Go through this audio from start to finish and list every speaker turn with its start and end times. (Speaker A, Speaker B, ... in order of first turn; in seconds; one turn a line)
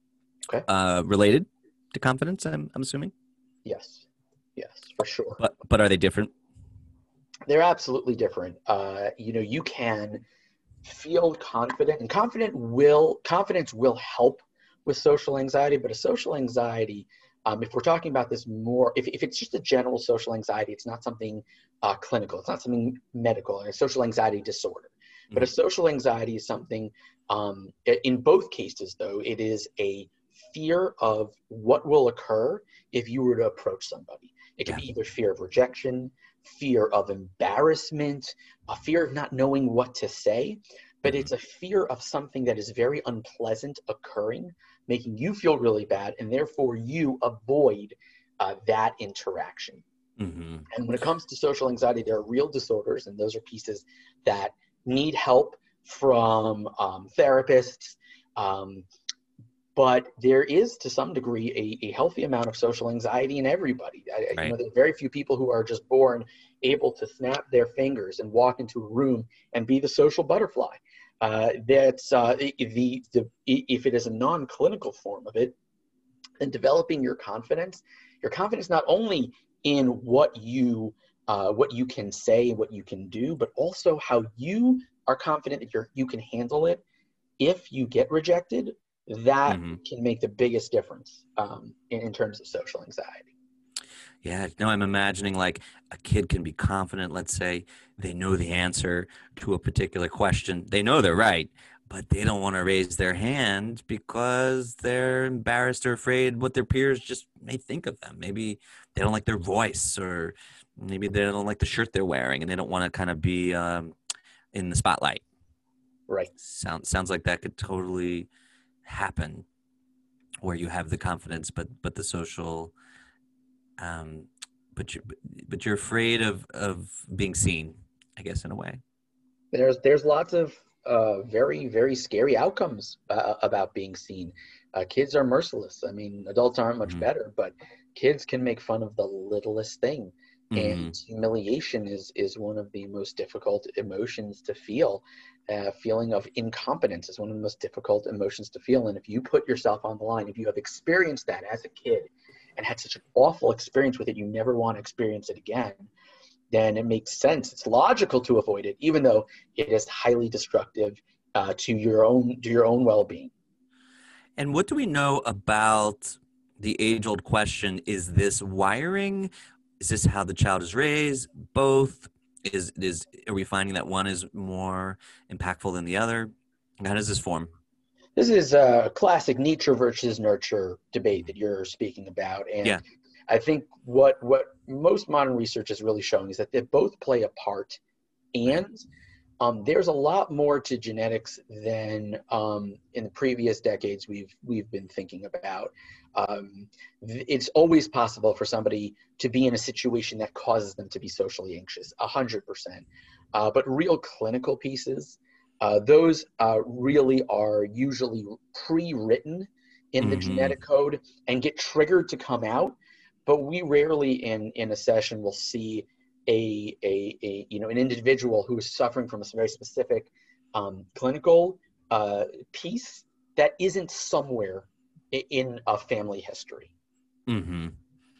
Speaker A: 0.7-3.1
Speaker B: 3.6-4.1
Speaker B: 4.6-5.4
Speaker A: 5.4-6.3
Speaker B: 7.5-10.2
Speaker B: 10.8-49.8
Speaker A: 50.2-50.7
Speaker B: 50.7-58.9
Speaker B: 59.8-75.6
Speaker B: 76.4-86.8
Speaker B: 87.4-93.3
Speaker A: 89.5-89.8
Speaker A: 94.2-114.0
Speaker A: 114.5-115.2
Speaker A: 116.4-118.3
Speaker A: 118.8-119.5
Speaker A: 120.4-122.7
Speaker A: 123.8-128.8
Speaker B: 129.5-155.9
Speaker A: 140.5-140.9
Speaker B: 156.5-163.3
Speaker A: 164.4-177.5
Speaker B: 178.2-187.8
Speaker B: 188.3-188.8
Speaker B: 189.4-226.7
Speaker A: 210.0-210.6
Speaker A: 227.3-227.8